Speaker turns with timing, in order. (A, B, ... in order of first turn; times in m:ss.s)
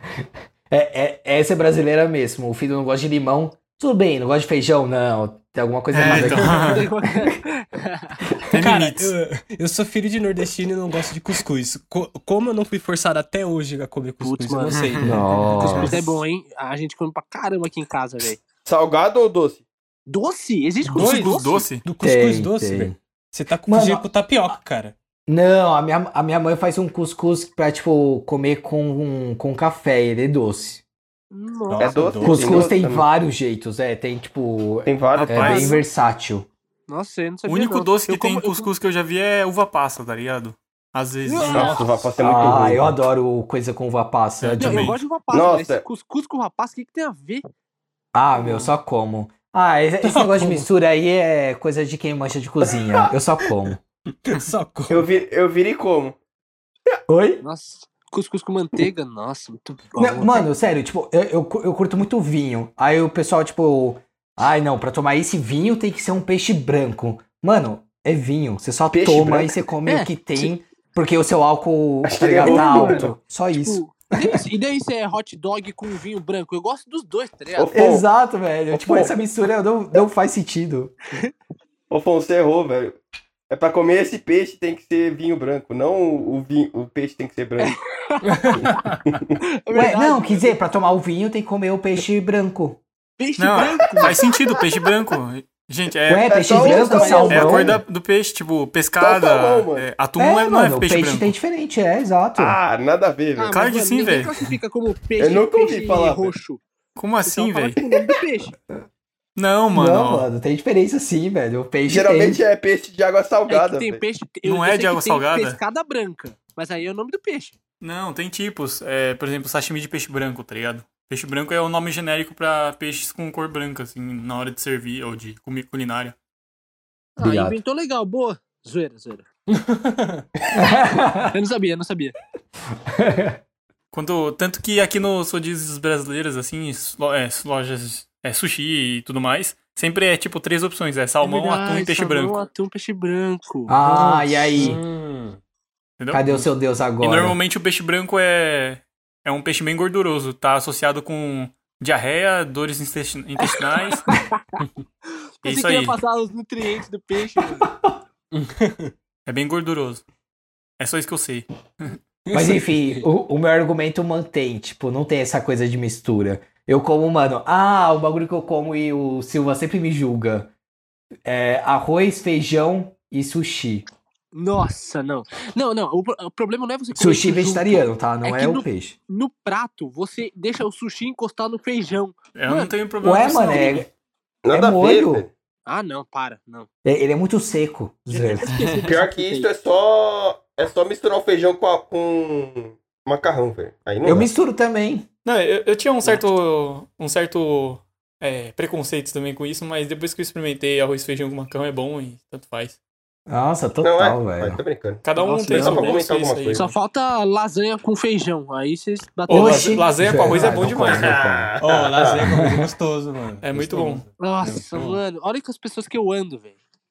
0:00.7-0:07.1 A
0:05.9-0:06.8 B
0:06.0-0:06.4 C
0:06.4-0:08.3 D
0:08.5-0:09.1 B
0:08.5-0:16.0 C
0:14.2-0:14.8 D
0:14.7-0:15.9 B
0:15.0-0:16.0 A
0:15.6-0:18.4 D
0:18.6-0:19.6 E
0:20.1-0:21.6 D
0:20.9-0:24.9 C
0:20.9-0:21.8 B
0:22.0-0:22.9 A
0:23.6-0:24.0 A
0:25.3-0:30.8 A
0:31.3-0:32.0 D
0:31.7-0:32.7 C
0:31.8-0:33.1 E
0:32.2-0:36.5 A
0:34.8-0:35.7 E
0:35.2-0:35.8 B
0:35.4-0:35.8 D
0:36.9-0:38.7 D
0:37.5-0:42.0 B
0:41.2-0:41.9 D
0:41.5-0:43.0 E
0:42.2-0:44.9 A
0:44.4-0:45.0 B
0:44.6-0:47.4 D
0:45.3-0:45.8 E
0:48.1-0:53.8 A
0:50.0-0:50.7 C
0:54.1-0:55.0 C
0:54.9-0:56.2 E
0:57.1-0:57.4 A
0:57.4-1:00.4 D
1:00.0-1:14.4 A
1:08.9-1:09.5 E
1:09.8-1:10.5 D
1:12.0-1:13.1 E
1:12.4-1:17.7 D
1:17.6-1:18.0 E
1:17.7-1:20.9 A
1:18.7-1:19.1 E
1:21.9-1:23.0 E
1:23.5-1:27.7 E
1:27.6-1:28.8 D
1:28.3-1:29.0 C
1:29.0-1:29.3 E
1:29.6-1:30.6 D
1:29.7-1:32.8 A
1:33.2-1:34.2 D
1:33.4-1:36.4 B
1:36.1-1:37.8 A
1:36.3-1:37.7 E
1:36.6-1:37.6 D
1:37.0-1:41.3 B
1:39.0-1:39.9 E
1:40.2-1:42.6 A
1:42.4-1:43.5 E
1:43.4-1:46.6 D
1:43.5-1:44.5 B
1:45.2-1:46.3 E
1:47.0-1:47.8 B
1:47.2-1:48.5 D
1:47.8-1:48.0 E
1:49.4-1:50.3 B
1:49.7-1:52.4 A
1:51.9-1:54.0 E
1:53.5-1:57.6 D
1:54.4-1:55.6 B
1:57.8-2:06.2 B
2:07.2-2:09.2 D
2:07.2-2:07.6 A
2:09.5-2:10.2 C
2:10.5-2:11.3 A
2:11.3-2:12.1 D
2:12.9-2:13.4 A
2:13.9-2:22.4 B
2:21.2-2:24.6 D
2:23.7-2:24.8 A
2:23.9-2:25.4 C
2:26.0-2:26.2 B
2:26.1-2:27.4 A
2:27.0-2:34.1 B
2:33.4-2:34.4 D
2:35.4-2:37.7 D
2:35.4-2:36.0 B
2:38.3-2:38.9 C
2:39.2-2:40.0 B
2:40.8-2:42.0 B
2:42.2-2:43.0 C
2:42.3-2:50.5 A
2:51.2-2:53.8 A
2:54.3-3:02.7 D
2:56.9-2:59.0 A
3:02.4-3:03.8 B
3:03.0-3:03.9 A
3:04.4-3:05.3 E
3:04.5-3:05.3 A
3:05.6-3:06.7 D
3:06.8-3:08.5 A
3:08.1-3:09.5 D
3:08.4-3:08.8 B
3:08.8-3:14.3 E
3:14.0-3:15.0 A
3:15.2-3:22.8 B
3:23.3-3:24.6 A
3:23.8-3:26.7 E
3:25.0-3:26.7 B
3:25.2-3:25.9 D
3:26.5-3:29.8 D
3:29.3-3:31.2 B
3:29.3-3:31.5 A
3:30.8-3:32.2 E
3:31.6-3:35.0 C
3:32.3-3:32.6 A
3:33.4-3:34.0 B
3:34.2-3:36.6 D